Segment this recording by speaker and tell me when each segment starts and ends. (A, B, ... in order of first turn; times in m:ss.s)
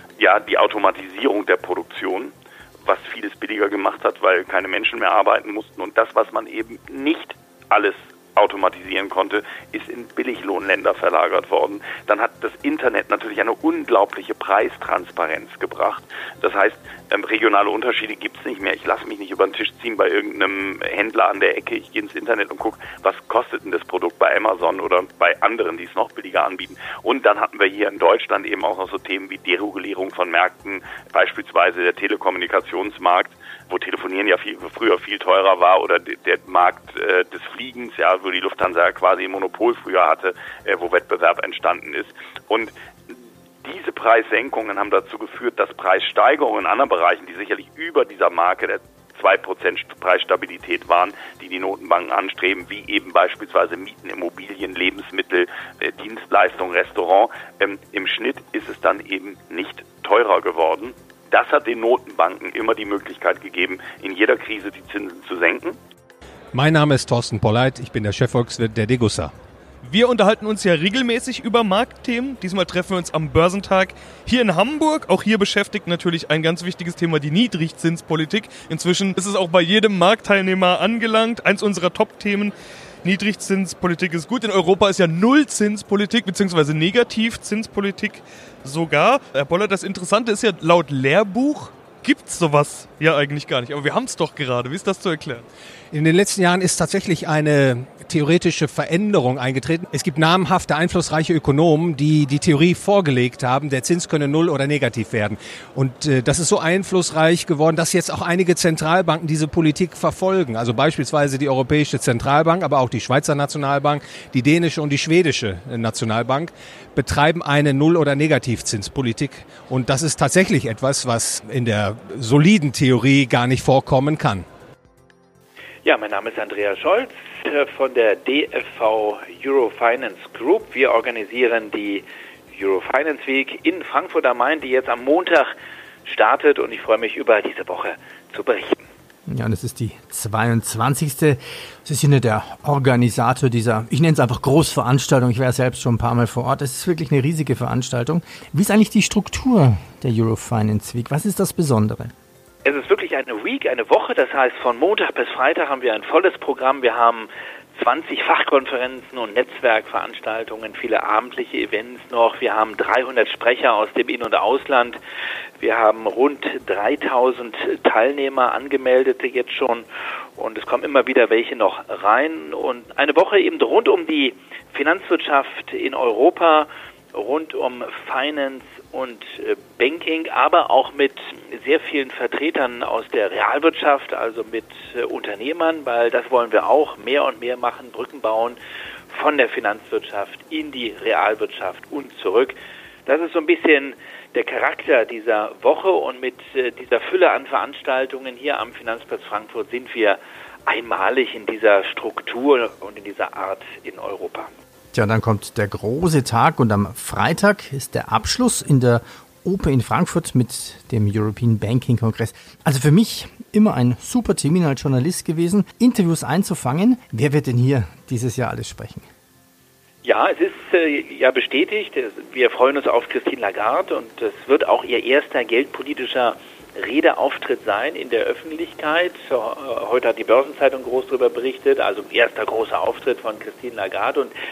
0:00.2-1:05.8 A
1:06.5-1:09.3 B
1:09.8-1:22.5 C
1:23.0-1:35.4 C
1:35.9-2:04.4 B
2:05.8-2:15.5 D
2:16.0-2:18.8 D
2:19.3-2:32.1 E
2:32.6-2:45.0 D
2:45.6-3:08.6 D
3:09.1-3:12.5 D
3:13.0-3:24.5 D
3:24.9-3:39.0 E
3:40.0-3:54.3 D